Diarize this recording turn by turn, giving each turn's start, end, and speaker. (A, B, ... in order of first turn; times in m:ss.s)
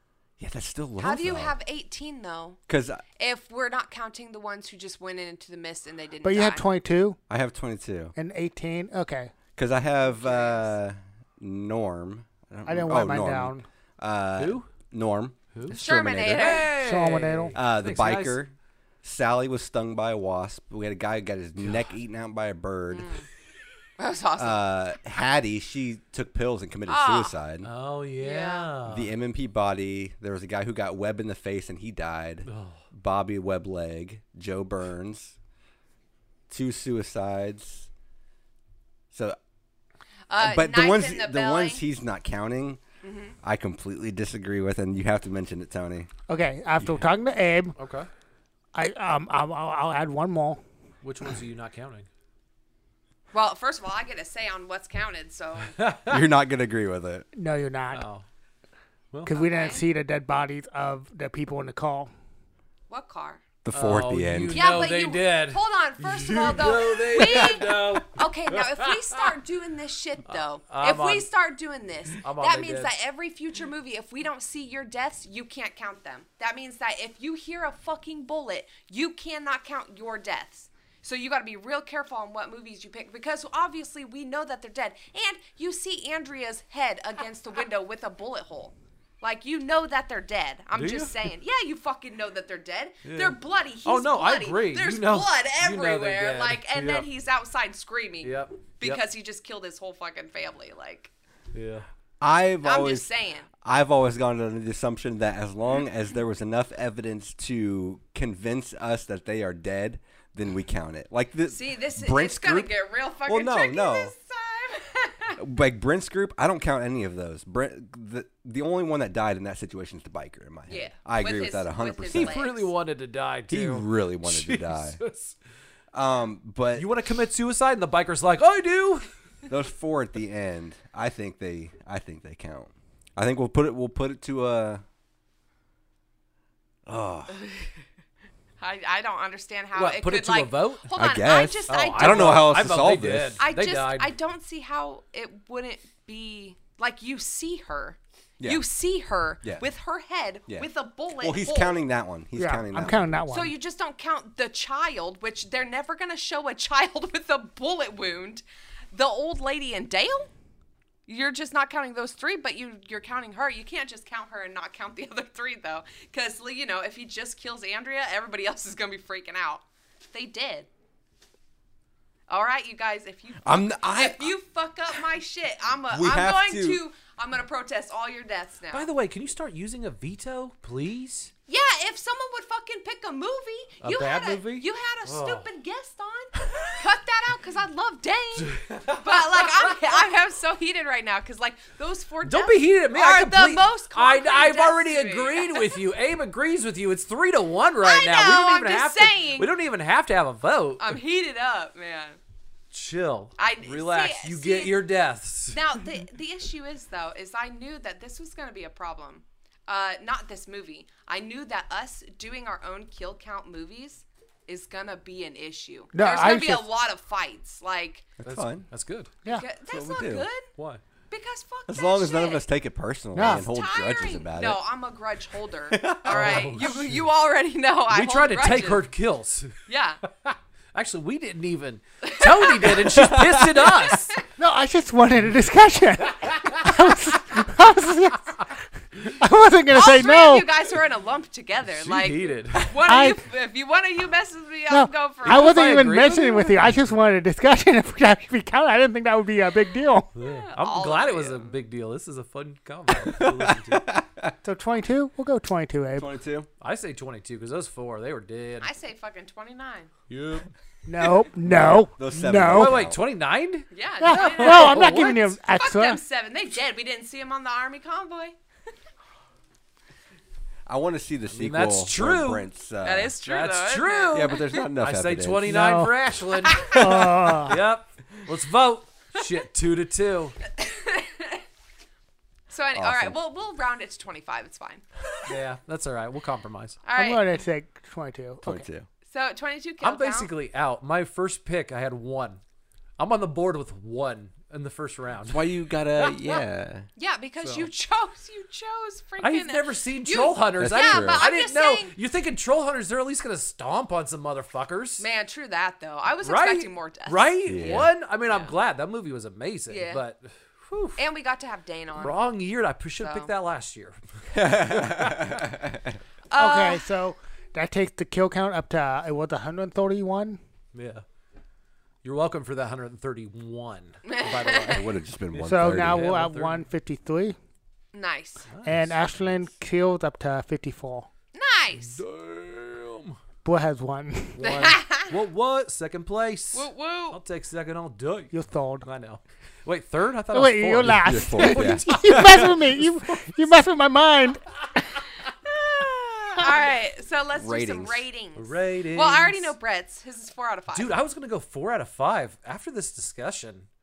0:00.4-0:01.6 A
0:01.0-0:02.6 B
0:02.7-0:03.0 A
0:03.2-0:06.6 B
0:06.2-0:07.2 C
0:07.3-0:08.1 A
0:08.2-0:09.3 C
0:09.6-0:16.7 A
0:10.1-0:10.7 B
0:12.6-0:13.6 C
0:14.4-0:14.7 D
0:15.5-0:18.4 D
0:15.7-0:16.7 B
0:16.8-0:17.6 C
0:17.5-0:23.1 A
0:22.9-0:23.2 B
0:24.0-0:24.6 B
0:24.4-0:27.7 A
0:26.9-0:27.4 B
0:27.6-0:29.1 D
0:28.2-0:28.7 B
0:28.8-0:35.4 A
0:32.4-0:32.8 D
0:36.5-0:37.9 A
0:39.1-0:39.4 A
0:40.3-0:41.8 B
0:40.4-0:42.8 A
0:43.0-0:43.3 B
0:43.4-0:46.1 A
0:46.3-0:47.7 C
0:47.8-0:48.1 D
0:48.7-0:50.6 C
0:51.0-0:52.1 D
0:53.3-0:55.7 B
0:55.7-0:56.2 D
0:56.1-0:57.3 A
0:57.3-0:58.0 C
0:57.9-0:58.2 D
0:59.1-0:59.4 D
0:59.2-1:02.1 C
0:59.4-0:59.8 B
1:02.9-1:03.4 B
1:03.6-1:04.8 A
1:03.7-1:09.3 D
1:04.5-1:41.1 B
1:10.3-1:11.3 D
1:12.2-1:12.9 D
1:30.7-1:31.3 D
1:33.0-1:37.0 D
1:38.2-1:39.0 D
1:41.5-1:41.8 D
1:42.2-1:43.1 A
1:42.6-1:43.5 B
1:43.6-1:52.7 A
1:51.5-1:55.4 B
1:53.3-1:54.1 A
1:55.4-2:02.4 A
2:00.7-2:02.7 B
2:02.1-2:05.4 D
2:03.5-2:05.0 A
2:05.9-2:06.9 A
2:06.7-2:09.1 D
2:09.5-2:14.8 A
2:16.8-2:17.4 A
2:18.6-2:22.6 B
2:19.7-2:20.9 D
2:20.9-2:23.4 A
2:21.7-2:24.1 D
2:23.4-2:31.8 B
2:28.4-2:28.6 A
2:31.2-2:33.1 A
2:32.4-2:33.5 C
2:33.3-2:40.3 B
2:41.1-2:50.7 B
2:52.3-2:58.9 B
2:53.4-2:54.3 A
2:55.9-2:56.8 A
2:58.7-3:01.3 D
3:01.5-3:15.8 B
3:03.8-3:05.4 D
3:06.4-3:06.7 D
3:08.4-3:09.8 D
3:12.2-3:21.0 D
3:17.8-3:19.5 B
3:20.8-3:22.2 B
3:22.7-3:25.6 D
3:23.4-3:24.8 B
3:25.5-3:38.1 B
3:35.9-3:36.7 C
3:38.2-3:38.7 A
3:38.2-3:39.1 D
3:39.3-3:40.5 B
3:39.7-3:40.3 A
3:40.6-3:40.8 D
3:41.1-3:42.4 B
3:41.7-3:44.6 A
3:43.1-3:43.4 C
3:43.2-3:48.9 B
3:45.7-3:46.6 A
3:46.1-3:47.0 D
3:47.9-3:49.6 D
3:49.7-3:50.0 B
3:50.2-3:54.2 D
3:52.0-3:52.7 B
3:52.7-3:53.7 A
3:53.9-3:54.2 B
3:54.4-3:58.5 C
3:59.1-4:00.5 C
3:59.7-4:05.6 B
4:01.7-4:02.7 D
4:02.8-4:03.2 C
4:04.7-4:10.1 C
4:05.2-4:06.6 D
4:10.1-4:13.8 D
4:10.2-4:11.5 B
4:13.0-4:14.3 A
4:14.4-4:16.1 C
4:16.0-4:16.5 A
4:16.6-4:18.7 D
4:18.6-4:19.9 B
4:20.1-4:20.5 D
4:20.8-4:22.9 C
4:21.4-4:23.0 A
4:22.4-4:25.3 D
4:23.7-4:28.4 B
4:24.0-4:26.0 C
4:30.7-4:33.1 A
4:31.3-4:32.5 D
4:32.8-4:34.6 B
4:33.2-4:40.4 D
4:34.1-4:35.6 A
4:35.5-4:35.9 C
4:36.7-4:37.6 C
4:36.7-4:37.5 A
4:40.6-4:41.4 B
4:42.5-4:44.8 B
4:42.7-4:43.2 A
4:45.2-4:46.8 D
4:46.8-4:47.2 B
4:46.9-4:48.6 C
4:48.4-4:48.9 A
4:49.0-4:50.3 B
4:49.8-4:52.4 D
4:53.0-4:56.4 D
4:55.3-4:56.9 A
4:57.0-5:01.9 B
4:57.4-4:57.7 D
4:59.2-5:05.0 D
5:00.6-5:01.2 A
5:05.0-5:08.6 B
5:06.2-5:11.0 D
5:07.4-5:07.9 A
5:09.7-5:10.0 B
5:11.0-5:12.2 B
5:12.0-5:15.4 D
5:13.0-5:13.3 B
5:14.3-5:16.0 A
5:16.3-5:16.8 B
5:16.3-5:20.4 C
5:20.7-5:21.0 D
5:22.0-5:26.6 D
5:24.0-5:24.8 B
5:24.7-5:26.1 A
5:25.5-5:27.4 C
5:27.9-5:28.4 B
5:28.5-5:29.5 D
5:28.6-5:31.1 C
5:31.3-5:32.0 B
5:31.9-5:33.2 D
5:33.4-5:34.4 C
5:34.3-5:42.9 D
5:34.4-5:35.1 B
5:36.5-5:37.2 B
5:38.3-5:38.8 C
5:40.3-5:44.9 C
5:40.8-5:42.6 A
5:46.4-5:51.0 B
5:47.3-5:48.0 A
5:48.4-5:49.5 D
5:50.7-5:53.7 D